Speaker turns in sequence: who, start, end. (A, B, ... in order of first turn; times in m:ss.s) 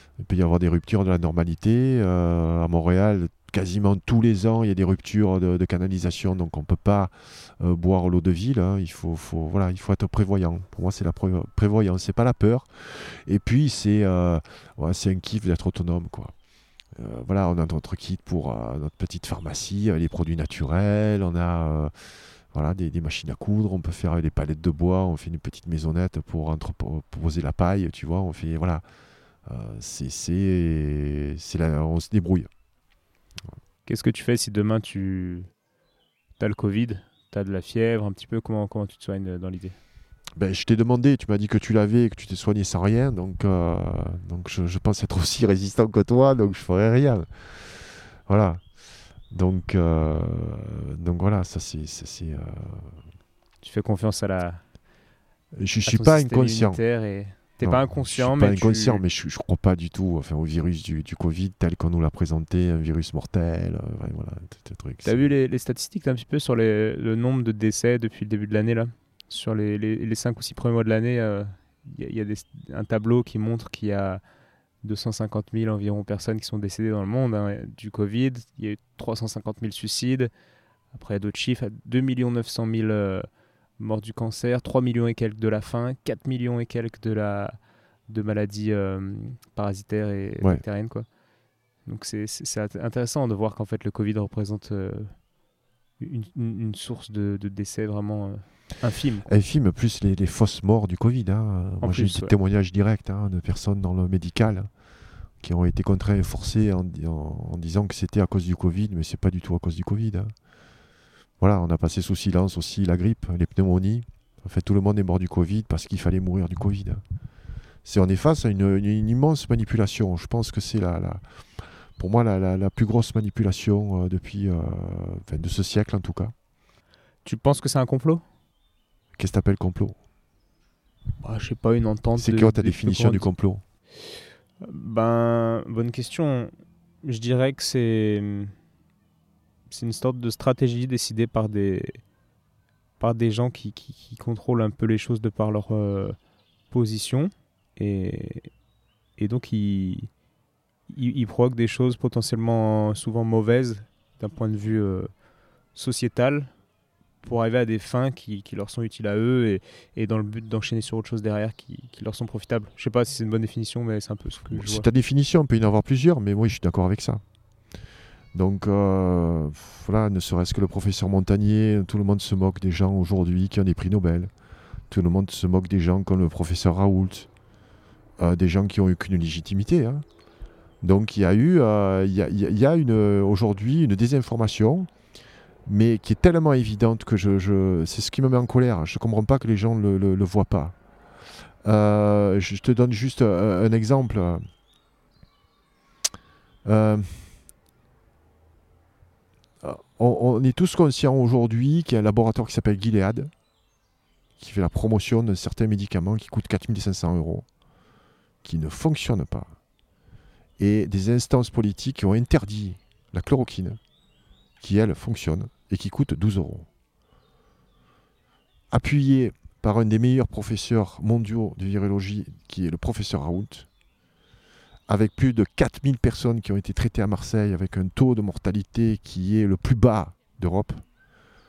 0:00.2-0:16.3 A
0:17.0-0:21.9 A
0:22.5-0:28.8 A
0:29.5-0:32.5 A
0:33.9-0:35.5 B
0:36.4-0:39.8 B
0:40.4-0:47.3 A
0:48.3-0:48.6 A
0:49.3-0:52.9 A
0:53.6-0:54.6 B
0:55.6-0:56.8 A
0:55.9-0:59.0 B
0:57.6-1:05.3 A
1:05.0-1:14.2 B
1:14.8-1:20.3 B
1:20.9-1:23.3 B
1:23.8-1:27.6 B
1:28.1-1:31.1 B
1:31.9-1:35.2 B
1:36.0-1:39.3 B
1:39.3-1:44.7 A
1:41.8-1:42.3 B
1:45.4-1:50.3 A
1:51.4-1:57.0 A
1:57.8-2:01.2 A
2:02.0-2:06.3 A
2:07.2-2:08.2 B
2:09.2-2:10.0 A
2:11.2-2:13.3 B
2:12.2-2:13.6 A
2:14.6-2:16.5 B
2:17.0-2:18.5 B
2:19.7-2:22.0 B
2:23.0-2:26.2 B
2:26.7-2:28.5 B
2:29.2-2:30.1 B
2:30.9-2:35.1 B
2:35.8-2:36.5 B
2:37.2-2:44.9 B
2:44.5-2:47.2 A
2:48.3-2:54.3 A
2:54.9-2:57.3 A
2:58.2-3:00.0 A
3:00.8-3:04.9 A
3:05.7-3:10.8 A
3:11.6-3:14.4 A
3:16.6-3:17.3 A
3:19.6-3:23.3 A
3:24.4-3:27.5 A
3:28.4-3:29.6 A
3:30.6-3:33.8 A
3:34.6-3:36.7 A
3:38.7-3:43.7 A
3:44.9-3:50.8 A